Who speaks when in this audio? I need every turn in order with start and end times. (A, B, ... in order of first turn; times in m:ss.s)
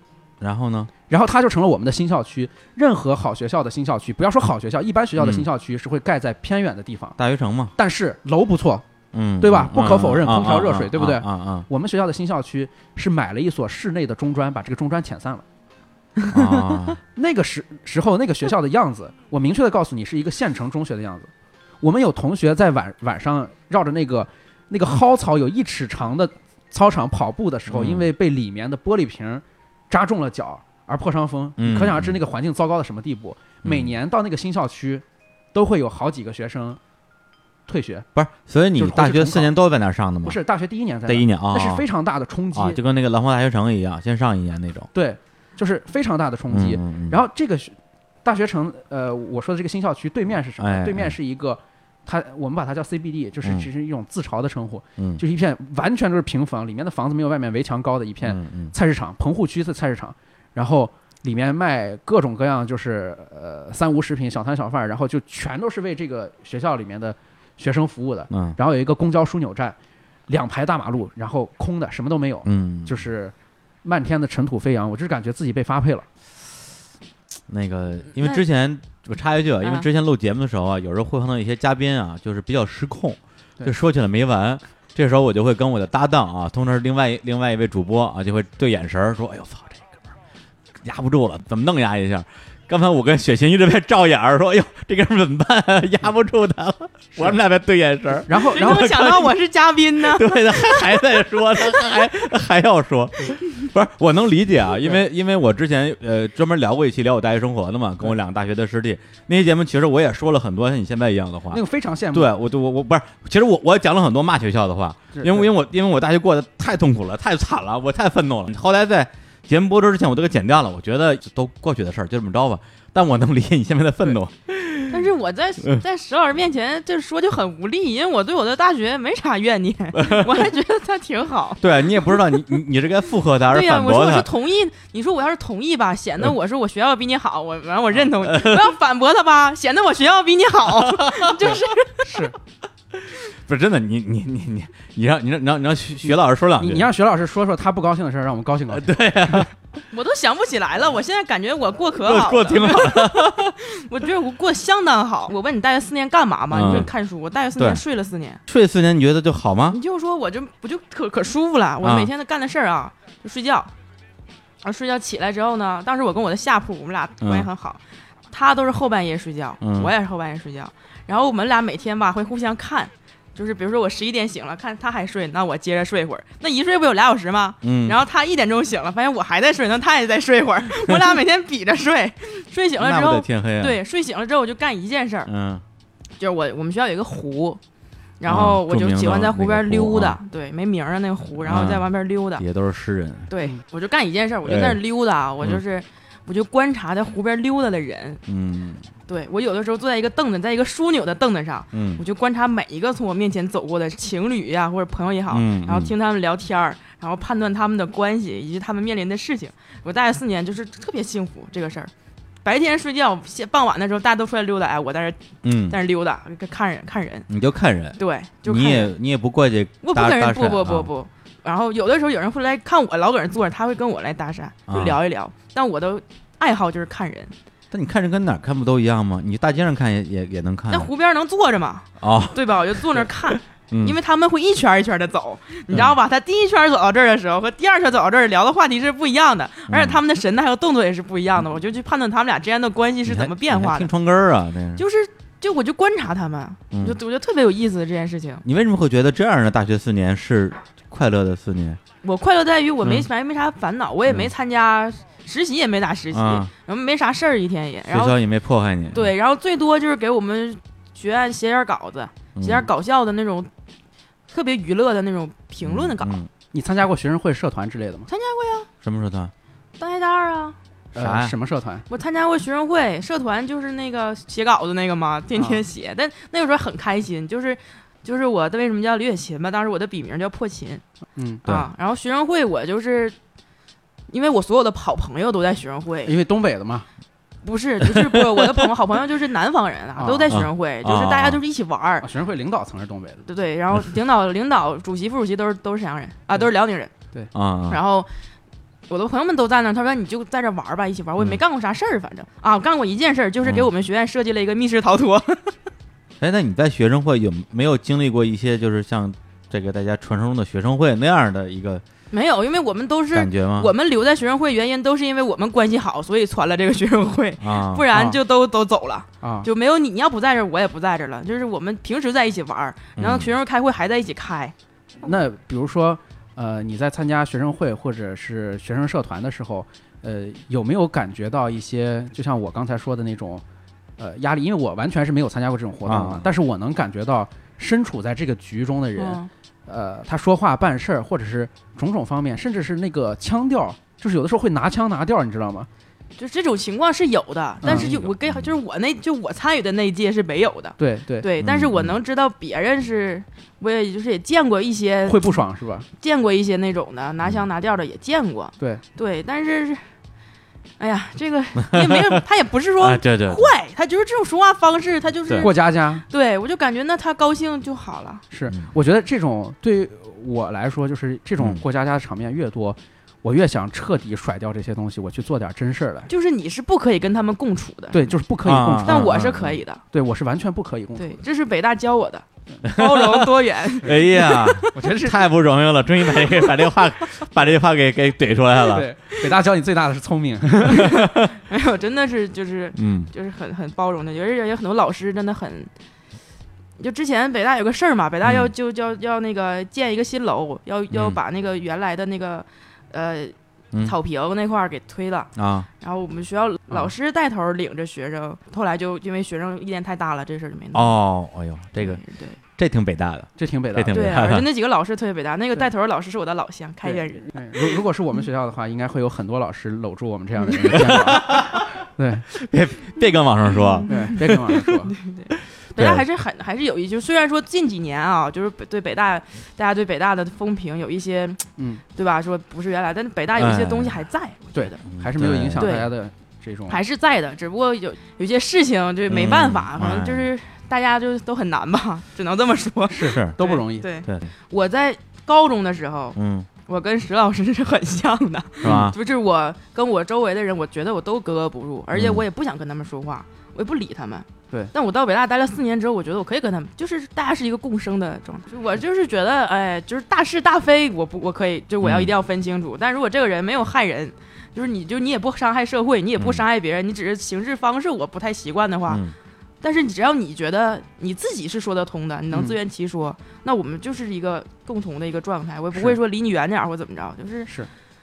0:00.4-0:00.9 A
0:01.1-0:07.2 B
0:05.2-0:05.5 A
0:07.2-0:07.7 A
0:07.8-0:08.8 B
0:09.1-0:11.7 A
0:09.4-0:15.4 B
0:16.3-0:17.0 A
0:17.2-0:21.3 B
0:21.8-0:36.8 B
0:27.7-0:28.1 A
0:31.6-0:32.2 A
0:33.6-0:33.9 A
0:37.7-0:38.1 B
0:38.2-0:40.4 A
0:38.8-0:39.5 B
0:40.2-0:42.8 B
0:41.1-0:41.8 A
0:42.5-0:44.9 A
0:44.9-1:09.8 B
0:46.5-0:47.2 A
0:50.6-0:51.1 A
0:58.2-0:58.7 A
1:08.3-1:08.6 A
1:10.3-1:16.1 B
1:12.5-1:13.0 A
1:17.5-1:30.0 A
1:18.2-1:18.4 C
1:30.8-1:39.4 A
1:38.3-1:38.9 B
1:38.5-1:41.0 C
1:40.0-2:05.1 A
1:51.5-1:52.3 B
1:55.2-1:55.5 B
2:04.9-2:12.2 C
2:10.0-2:10.3 A
2:11.6-2:14.3 A
2:13.5-2:22.1 C
2:18.2-2:18.7 A
2:20.8-2:21.5 A
2:22.0-2:22.3 B
2:23.3-2:26.9 A
2:26.0-2:29.5 B
2:28.7-2:29.5 A
2:29.9-2:38.4 C
2:32.0-2:33.5 A
2:36.5-2:36.9 A
2:38.5-2:39.8 A
2:39.7-2:43.7 C
2:41.8-2:42.1 A
2:44.6-2:47.8 C
2:47.2-2:47.5 A
2:48.3-3:05.3 C
2:49.6-2:49.9 A
2:57.6-2:58.0 A
3:02.8-3:03.8 A
3:05.3-3:05.6 A
3:06.2-3:07.6 C
3:08.2-3:12.4 C
3:08.3-3:10.2 A
3:11.4-3:13.3 A
3:13.3-3:18.2 C
3:14.4-3:14.8 A
3:18.3-3:18.8 A
3:19.1-3:31.9 C
3:21.7-3:22.0 A
3:25.3-3:25.9 A
3:32.4-3:37.3 C
3:35.4-3:35.8 A
3:37.3-3:40.9 A
3:38.0-3:38.9 C
3:39.8-3:47.3 C
3:44.7-3:45.0 A
3:47.7-3:50.9 A
3:50.7-4:03.9 C
3:52.0-3:53.1 A
3:53.7-3:54.0 A
3:59.7-4:00.0 A
4:03.1-4:04.8 A
4:04.8-4:08.4 C
4:06.7-4:07.0 A
4:08.4-4:11.8 A
4:12.0-4:18.2 C
4:16.1-4:16.5 A
4:17.9-4:19.1 A
4:18.9-4:23.5 C
4:22.4-4:22.7 A
4:24.3-4:26.2 C
4:25.6-4:26.3 A
4:26.5-4:28.1 B
4:28.1-4:28.7 C
4:28.8-4:29.3 A
4:29.8-4:30.6 C
4:31.0-4:31.4 A
4:31.0-4:31.8 B
4:31.9-4:40.8 C
4:35.4-4:35.6 B
4:41.2-4:41.4 B
4:41.4-4:43.2 C
4:44.1-4:46.2 C
4:46.0-4:46.9 B
4:47.4-4:52.1 C
4:48.1-4:48.4 A
4:50.0-4:50.4 B
4:50.3-4:51.4 A
4:52.0-4:53.3 B
4:53.3-4:56.9 C
4:57.3-4:57.8 A
4:57.7-4:58.1 C
4:58.9-5:05.6 C
5:06.2-5:11.8 A
5:12.1-5:24.5 C
5:13.1-5:13.7 A
5:17.4-5:17.9 A
5:19.2-5:19.5 B
5:23.0-5:23.3 A
5:25.0-5:33.4 B
5:34.0-5:45.7 B
5:35.9-5:36.3 A
5:39.0-5:39.3 C
5:46.2-5:55.4 C
5:47.6-5:47.9 B
5:47.6-5:48.5 A
5:50.8-5:51.3 B
5:51.4-5:52.0 A
5:55.1-5:55.9 B
5:56.0-5:59.9 C
6:00.8-6:08.2 C
6:01.7-6:02.2 A
6:02.8-6:03.5 A
6:05.4-6:06.0 B
6:08.3-6:16.1 B
6:16.1-6:18.1 C
6:17.9-6:19.1 B
6:18.4-6:19.6 A
6:18.8-6:19.8 C
6:19.9-6:21.2 B
6:21.0-6:24.7 C
6:22.6-6:23.3 A
6:23.8-6:28.9 A
6:24.7-6:25.3 B
6:28.7-6:31.0 B
6:30.7-6:35.7 C
6:30.8-6:31.3 A
6:32.8-6:33.1 A
6:36.8-6:50.9 C
6:38.2-6:38.5 A
6:40.9-6:41.2 A
6:45.4-6:45.7 A
6:50.7-6:52.0 A
6:51.8-6:52.4 C
6:52.6-6:54.5 A
6:53.4-6:54.0 B
6:53.9-6:57.4 C
6:56.8-7:02.3 B
7:00.6-7:01.7 A
7:02.3-7:04.6 A
7:03.5-7:14.8 C
7:03.9-7:04.9 B
7:05.8-7:06.0 A
7:11.6-7:11.8 B
7:13.4-7:14.0 A
7:14.5-7:16.8 B
7:14.9-7:15.7 A
7:15.6-7:15.9 C
7:16.7-7:49.0 C
7:19.1-7:20.3 A
7:22.9-7:23.9 B
7:23.1-7:23.4 A
7:24.1-7:24.3 A
7:26.2-7:26.5 A
7:28.6-7:29.0 A
7:31.9-7:32.2 A
7:41.8-7:42.1 A
7:46.2-7:46.4 A
7:48.9-7:49.1 A
7:49.6-7:57.5 C
7:52.3-7:52.6 B